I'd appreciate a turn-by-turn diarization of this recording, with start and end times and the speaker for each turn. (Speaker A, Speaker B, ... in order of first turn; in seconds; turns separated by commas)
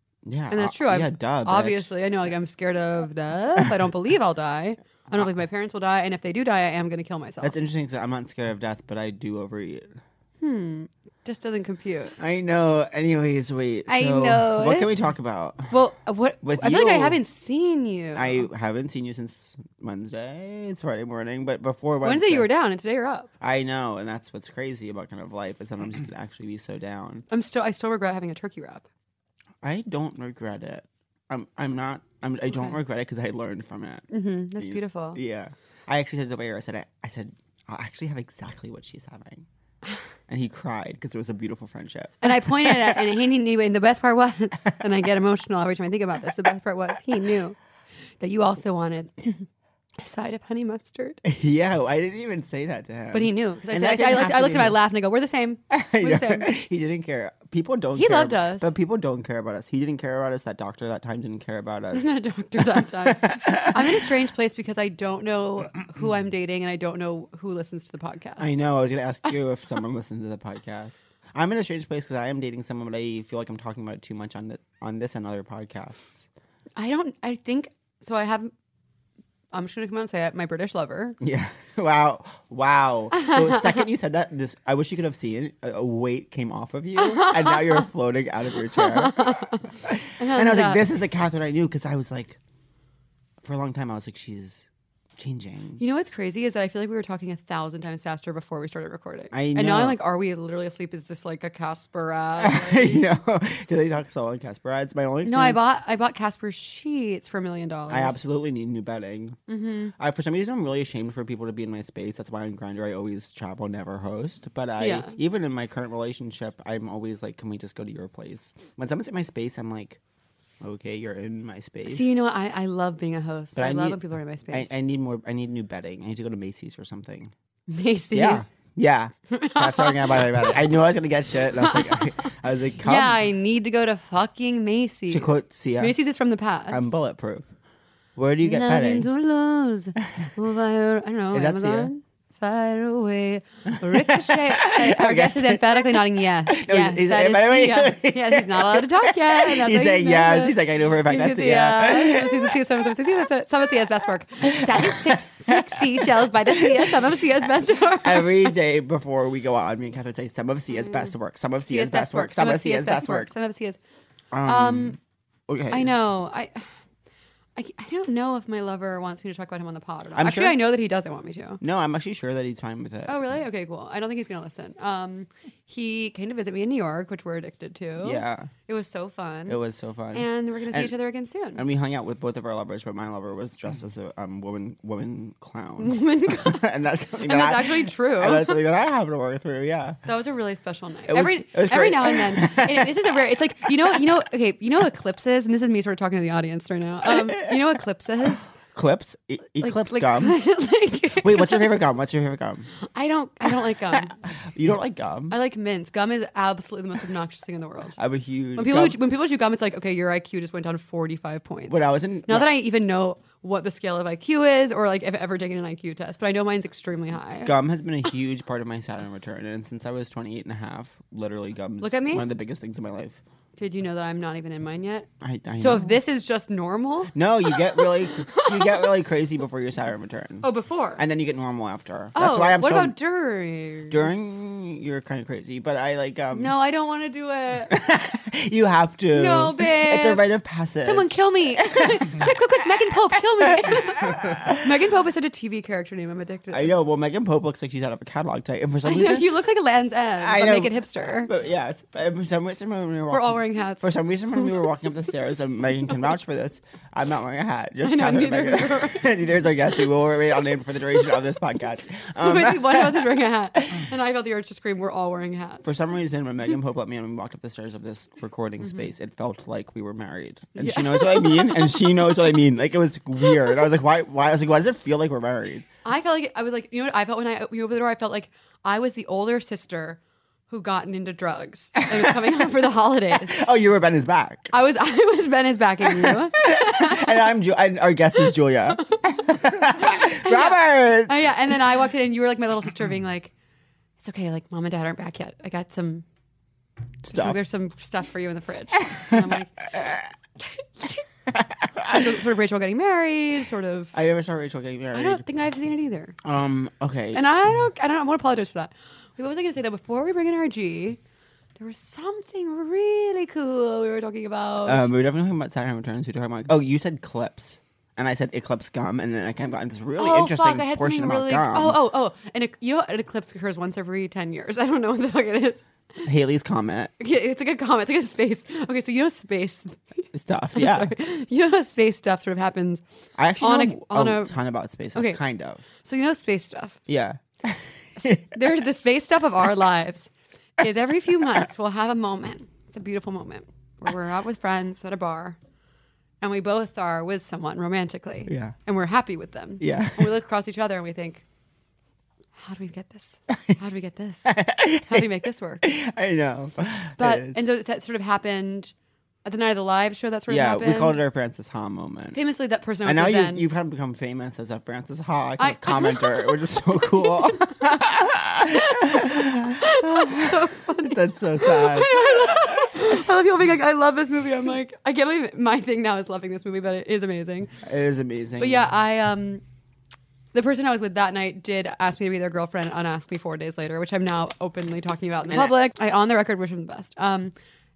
Speaker A: 0.2-1.9, Speaker B: 0.5-7.6, Speaker A: 7.4-10.0, Speaker B: 10.4-12.2, Speaker A: 12.2-15.8, Speaker B: 13.9-14.9, Speaker B: 15.7-18.5, Speaker A: 16.4-17.2, Speaker A: 18.1-22.5, Speaker B: 22.0-23.3, Speaker A: 23.4-27.2, Speaker B: 27.3-28.9, Speaker A: 29.6-39.4, Speaker B: 32.5-32.7, Speaker B: 34.1-35.2, Speaker A: 40.3-43.1, Speaker B: 42.2-47.6, Speaker B: 48.2-49.5, Speaker B: 50.0-51.2, Speaker A: 51.2-54.8, Speaker B: 53.1-56.5, Speaker A: 55.7-64.1, Speaker B: 58.0-58.7, Speaker B: 61.9-68.5, Speaker A: 68.4-76.3, Speaker B: 76.8-78.5, Speaker B: 79.5-81.2, Speaker A: 81.2-92.4, Speaker B: 83.1-83.8, Speaker B: 87.1-87.5, Speaker B: 88.8-89.7, Speaker B: 90.2-90.8, Speaker A: 93.4-95.8, Speaker B: 95.8-103.0, Speaker A: 99.3-100.0, Speaker A: 102.4-105.6, Speaker B: 105.2-108.2, Speaker A: 107.9-109.4, Speaker B: 109.5-109.9, Speaker A: 110.0-120.0, Speaker B: 114.8-115.1, Speaker A: 120.6-122.2, Speaker B: 121.9-124.7, Speaker A: 123.5-127.3, Speaker B: 127.7-128.5, Speaker A: 128.1-133.2, Speaker B: 129.3-130.6, Speaker B: 131.5-136.9, Speaker A: 135.1-136.0, Speaker A: 136.7-137.5, Speaker A: 138.2-139.1, Speaker B: 138.4-158.5, Speaker A: 141.3-141.9, Speaker A: 143.7-152.6, Speaker A: 154.4-157.2, Speaker A: 157.9-163.3, Speaker B: 160.7-161.1, Speaker B: 161.7-163.8, Speaker A: 164.3-165.9, Speaker B: 164.4-165.0, Speaker B: 165.7-166.7, Speaker B: 167.6-171.6, Speaker A: 170.2-170.7, Speaker A: 171.6-173.2, Speaker B: 173.1-179.6, Speaker A: 178.0-178.5, Speaker A: 179.5-180.9, Speaker B: 180.1-181.6, Speaker A: 181.6-190.0, Speaker B: 185.8-186.6, Speaker B: 187.2-188.6, Speaker B: 190.1-198.5, Speaker A: 191.1-194.0, Speaker A: 197.1-197.6, Speaker A: 198.5-200.4, Speaker B: 199.6-201.8, Speaker A: 201.2-202.7, Speaker B: 202.9-204.1, Speaker A: 203.9-205.3, Speaker B: 205.3-208.0, Speaker A: 208.0-209.0, Speaker B: 208.6-217.5, Speaker A: 211.7-212.5, Speaker A: 217.4-223.2, Speaker B: 221.8-222.2, Speaker B: 223.6-225.1, Speaker A: 225.2-225.9, Speaker B: 225.6-228.9, Speaker A: 227.1-232.9, Speaker B: 230.4-231.0, Speaker B: 232.1-234.1, Speaker A: 233.9-236.5, Speaker B: 236.3-237.7, Speaker A: 237.7-242.4, Speaker B: 239.1-240.2, Speaker B: 240.8-246.7, Speaker A: 243.2-244.6, Speaker A: 246.5-249.3, Speaker B: 248.8-251.3, Speaker A: 250.2-263.9, Speaker B: 253.1-253.9, Speaker B: 257.8-259.1, Speaker B: 262.2-265.7, Speaker A: 265.6-275.7, Speaker B: 270.6-271.8, Speaker B: 275.8-283.4, Speaker A: 281.8-282.4, Speaker A: 283.3-284.5, Speaker B: 284.5-287.3, Speaker A: 286.1-291.4, Speaker B: 289.9-293.3, Speaker B: 294.0-296.0, Speaker A: 297.0-297.4, Speaker B: 297.1-299.7, Speaker A: 298.8-300.0, Speaker A: 301.3-302.1, Speaker B: 301.8-303.9, Speaker A: 303.9-305.2, Speaker B: 304.9-306.1, Speaker A: 306.2-307.2, Speaker B: 307.1-311.0, Speaker B: 311.6-314.9, Speaker A: 314.6-321.8, Speaker B: 320.0-326.1, Speaker A: 326.0-326.9, Speaker B: 327.0-332.8, Speaker A: 330.1-330.9, Speaker A: 333.2-335.6, Speaker B: 333.4-334.3, Speaker B: 334.9-335.2, Speaker B: 335.8-336.8, Speaker A: 336.9-338.3, Speaker B: 338.0-345.4, Speaker B: 346.2-351.2, Speaker A: 348.3-348.5, Speaker A: 349.6-350.1, Speaker B: 352.4-354.3, Speaker A: 353.3-353.6, Speaker A: 354.2-357.4, Speaker B: 354.9-355.6, Speaker B: 357.0-358.7, Speaker B: 359.2-361.0, Speaker A: 360.3-362.2, Speaker B: 362.1-363.4, Speaker A: 362.8-373.0, Speaker B: 365.4-366.3, Speaker B: 367.1-367.6, Speaker B: 368.5-377.5, Speaker A: 377.6-378.6, Speaker B: 378.4-379.4, Speaker B: 380.3-387.3, Speaker A: 385.3-385.6